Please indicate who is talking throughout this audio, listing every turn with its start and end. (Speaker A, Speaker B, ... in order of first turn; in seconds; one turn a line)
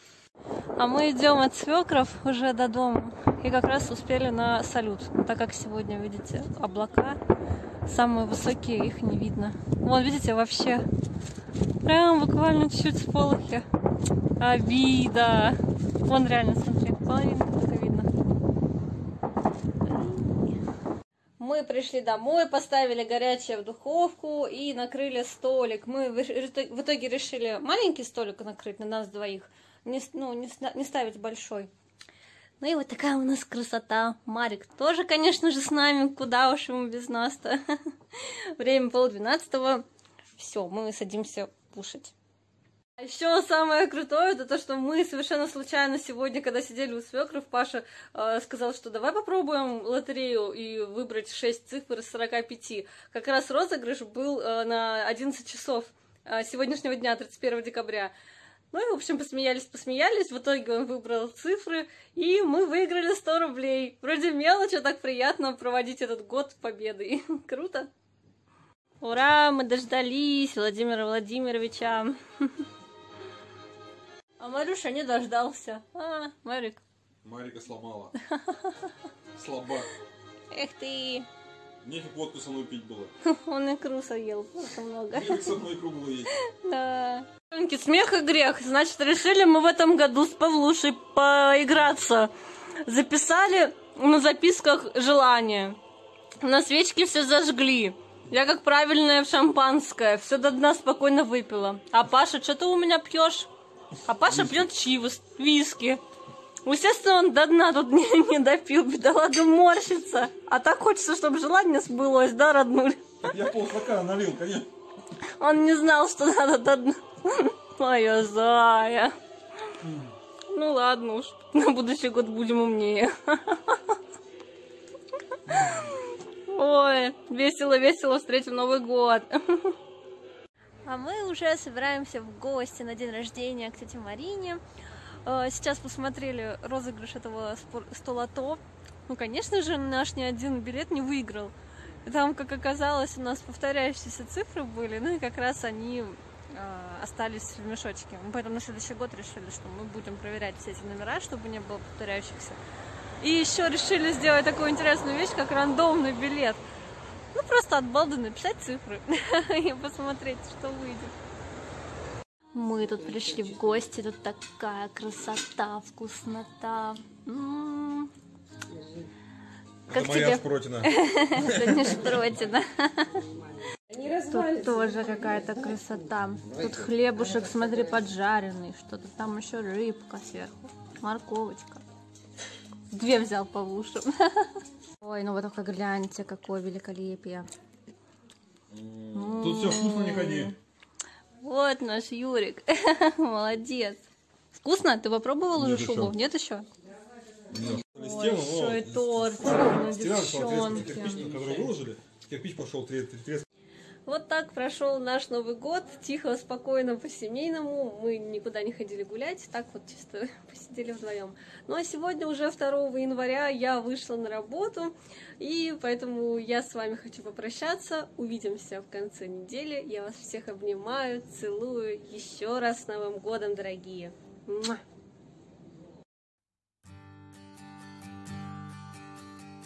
Speaker A: 0.8-7.2
Speaker A: 7.8-10.8
Speaker A: 11.8-13.6
Speaker A: 14.4-18.1
Speaker A: 19.9-20.5
Speaker A: 21.4-31.7
Speaker A: 32.6-37.6
Speaker A: 38.1-39.8
Speaker A: 40.4-42.1
Speaker A: 43.0-58.1
Speaker A: 58.7-67.9
Speaker A: 69.0-72.7
Speaker A: 74.4-76.8
Speaker B: 77.2-78.2
Speaker A: 78.3-78.8
Speaker B: 79.3-79.9
Speaker A: 80.5-81.3
Speaker B: 81.8-83.1
Speaker A: 83.2-85.6
Speaker B: 85.1-86.3
Speaker A: 86.3-92.3
Speaker A: 92.8-95.8
Speaker A: 96.4-103.5
Speaker A: 104.0-106.0
Speaker A: 106.6-113.1
Speaker B: 113.2-114.7
Speaker A: 115.4-119.1
Speaker A: 120.5-124.0
Speaker A: 125.5-129.8
Speaker A: 130.8-134.6
Speaker A: 135.2-152.6
Speaker A: 153.2-156.6
Speaker A: 157.3-161.1
Speaker A: 162.5-168.1
Speaker B: 169.9-171.9
Speaker A: 169.9-173.3
Speaker A: 173.9-181.8
Speaker A: 182.9-187.5
Speaker B: 188.7-190.5
Speaker A: 189.1-190.5
Speaker A: 191.4-196.7
Speaker B: 195.6-196.2
Speaker B: 197.5-203.4
Speaker A: 197.9-201.3
Speaker A: 204.1-224.8